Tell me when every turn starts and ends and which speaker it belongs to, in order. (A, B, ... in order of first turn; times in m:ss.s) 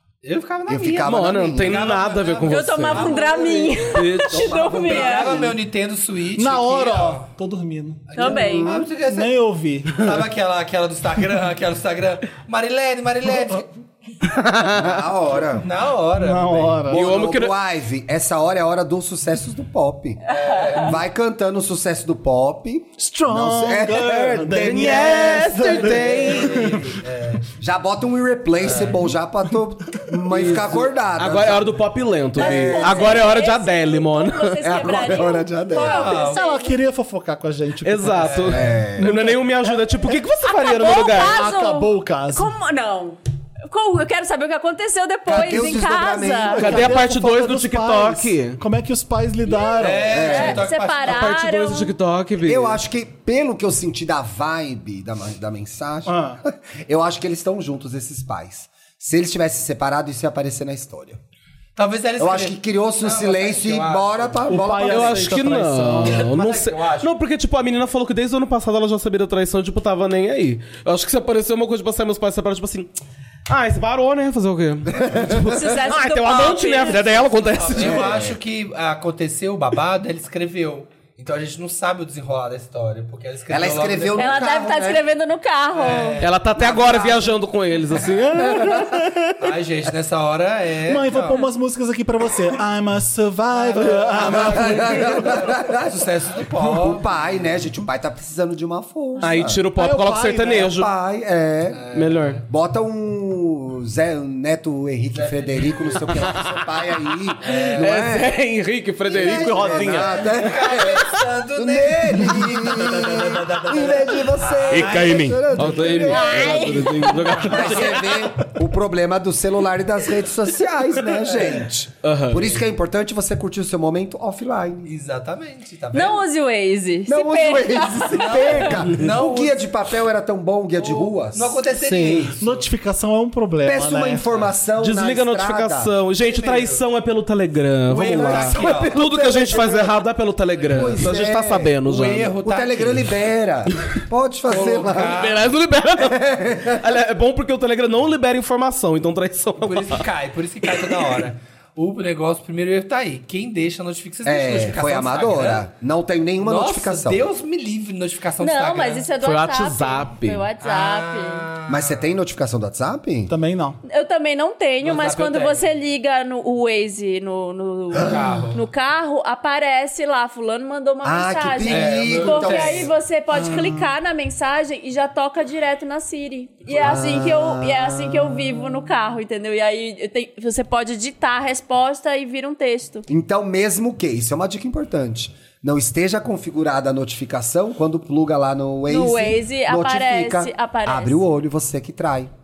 0:00.2-0:04.0 A
0:00.7-0:01.9 B
0:01.0-0:03.2 C
0:02.4-0:05.5 D
0:03.8-0:04.5 C
0:04.3-0:05.6 B
0:04.8-0:07.3 A
0:06.4-0:10.0 E
0:08.1-0:13.7 A
0:08.2-0:08.7 D
0:08.4-0:08.9 B
0:14.2-0:14.9 C
0:14.7-0:15.7 B
0:15.6-0:16.9 A
0:16.2-0:17.2 E
0:16.9-0:17.6 C
0:16.9-0:25.8 B
0:20.3-0:21.0 A
0:20.3-0:20.8 D
0:23.0-0:27.0 E
0:24.6-0:26.8 C
0:25.8-0:27.5 A
0:27.6-0:31.8 B
0:28.6-0:29.1 A
0:30.3-0:34.8 C
0:32.4-0:33.2 B
0:32.4-0:36.8 D
0:34.6-0:36.2 B
0:35.7-0:36.6 A
0:35.9-0:40.2 E
0:37.8-0:41.4 C
0:38.2-0:38.8 A
0:38.5-0:39.1 B
0:40.5-0:46.7 D
0:41.1-0:42.5 E
0:45.3-0:47.0 B
0:46.6-0:50.2 E
0:46.6-0:48.6 C
0:49.4-0:52.0 D
0:49.8-0:51.4 A
0:50.1-0:50.7 B
0:51.0-0:52.8 C
0:52.4-1:01.2 B
0:56.1-0:56.4 E
1:01.8-1:04.8 A
1:02.2-1:05.4 B
1:04.5-1:06.3 E
1:04.8-1:12.9 C
1:06.0-1:07.1 A
1:13.5-1:18.3 C
1:14.9-1:15.6 B
1:15.5-1:17.1 D
1:16.9-1:24.4 A
1:17.8-1:18.3 B
1:23.5-1:25.0 B
1:24.2-1:26.2 D
1:25.7-1:27.4 A
1:26.2-1:29.3 C
1:28.5-1:28.9 B
1:29.4-1:31.5 A
1:30.9-1:35.4 E
1:33.5-1:37.5 A
1:33.8-1:35.0 C
1:34.4-1:36.1 B
1:36.6-1:39.6 B
1:39.2-1:40.9 C
1:39.7-1:40.7 E
1:40.6-1:41.8 B
1:41.7-1:42.4 A
1:41.9-1:42.4 C
1:42.5-1:48.4 B
1:45.1-1:46.1 A
1:46.1-1:46.4 C
1:47.4-1:48.0 A
1:47.5-1:50.4 C
1:49.1-2:04.9 B
1:49.1-1:56.0 A
1:54.7-1:58.2 C
1:56.0-1:57.6 D
1:57.2-1:58.1 A
2:02.0-2:02.5 C
2:04.9-2:06.2 A
2:05.9-2:08.8 D
2:07.1-2:12.3 B
2:08.1-2:09.7 A
2:10.8-2:12.7 A
2:12.4-2:14.2 E
2:13.6-2:15.9 B
2:14.8-2:22.3 C
2:16.2-2:16.8 A
2:17.9-2:19.0 A
2:17.9-2:20.0 B
2:20.7-2:21.8 B
2:21.8-2:23.1 A
2:22.4-2:25.3 B
2:24.5-2:25.5 A
2:25.0-2:30.1 C
2:26.0-2:26.8 B
2:29.6-2:35.7 A
2:34.2-2:37.2 B
2:36.4-2:39.1 A
2:38.4-2:41.5 D
2:39.2-2:40.5 C
2:40.6-2:42.1 A
2:41.7-2:43.3 B
2:43.3-2:43.8 E
2:43.8-3:03.1 D
2:44.8-2:45.6 A
2:47.9-2:48.6 A
2:51.0-2:53.9 B
2:51.6-2:52.9 A
2:56.7-2:58.8 B
3:03.1-3:12.3 B
3:08.9-3:11.2 D